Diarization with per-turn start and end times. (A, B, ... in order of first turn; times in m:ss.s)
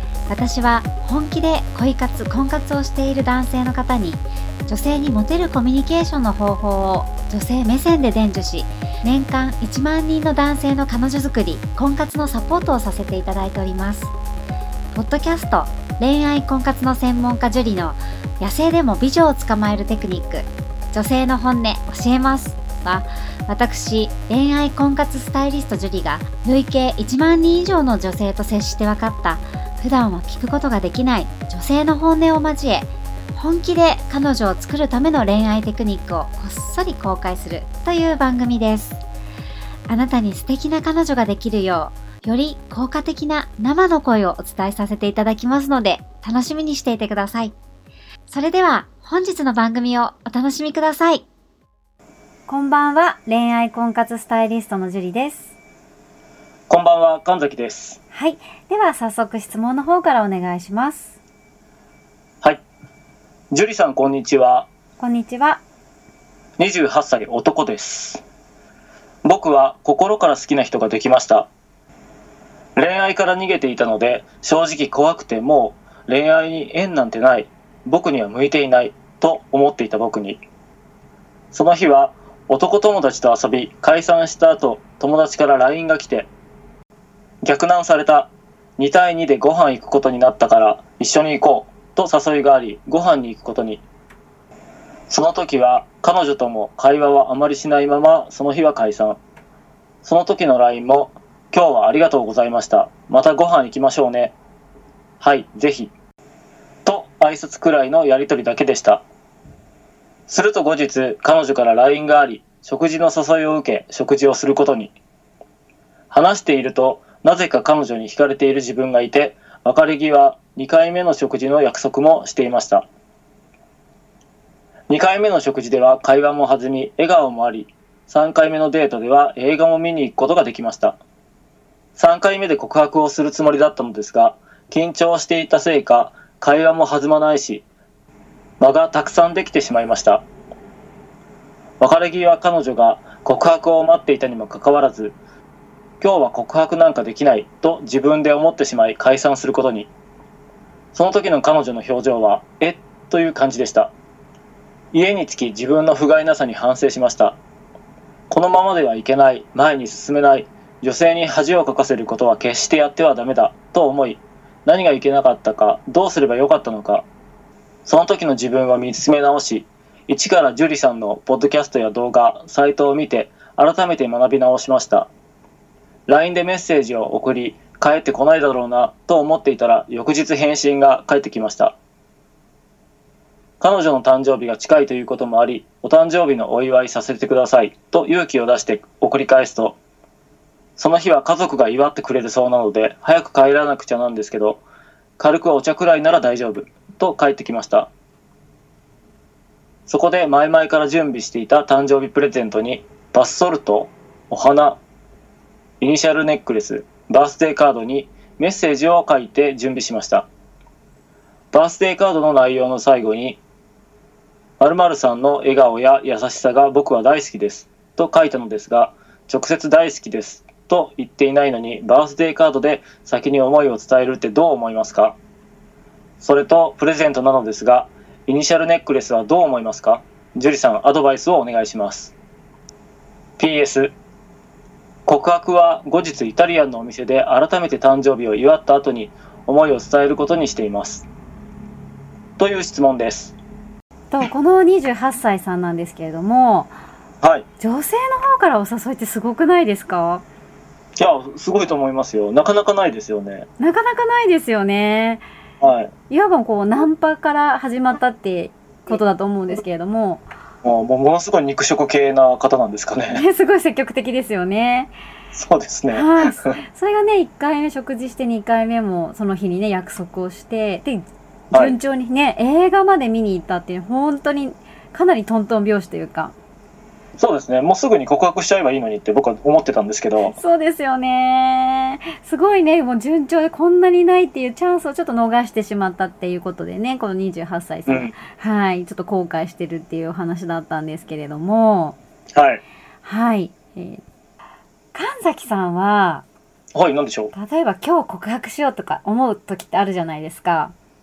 0:00.3-0:14.1 A
0:14.9-0:39.0 A
0:39.9-0:47.5 A
0:48.3-0:51.2 A
0:52.5-0:55.5 B
0:56.7-0:58.0 C
0:58.1-1:01.2 B
1:03.5-1:04.7 C
1:05.0-1:05.6 B
1:06.6-1:08.2 C
1:09.2-1:11.5 C
1:12.8-1:20.4 C
1:21.5-1:26.3 C
1:27.4-1:33.8 C
1:35.1-1:39.2 C
1:40.0-1:44.4 C
1:45.2-1:45.9 C
1:46.8-1:49.0 C
1:50.3-1:54.9 C
1:56.1-2:02.9 C
2:04.9-2:11.0 C
2:12.0-2:17.6 C
2:18.6-2:20.2 C
2:21.8-2:25.2 C
2:26.0-2:29.9 C
2:30.9-2:33.9 C
2:34.9-2:37.4 C
2:38.3-2:47.1 C
2:47.9-2:55.1 C
2:56.1-3:01.8 C
3:03.6-3:09.8 C
3:10.8-3:14.6 C
3:15.2-3:17.9 C
3:19.9-3:24.8 C
3:25.8-3:30.3 C
3:31.5-3:33.4 C
3:34.6-3:45.2 C
3:46.2-3:52.1 C
3:53.4-3:53.9 C
3:55.1-4:01.1 C
4:02.4-4:03.4 C
4:04.1-4:06.7 B
4:07.6-4:10.2 B
4:11.0-4:13.5 C
4:13.6-4:15.2 B
4:15.6-4:15.9 C
4:16.1-4:20.2 B
4:20.6-4:23.2 C
4:23.1-4:24.9 B
4:25.3-4:26.6 C
4:25.9-4:36.3 B
4:37.2-4:40.4 C
4:40.3-4:52.0 B
4:52.3-4:52.6 C
4:53.0-4:54.0 B
4:54.9-4:56.2 B
4:56.7-4:57.3 C
4:57.3-5:00.7 B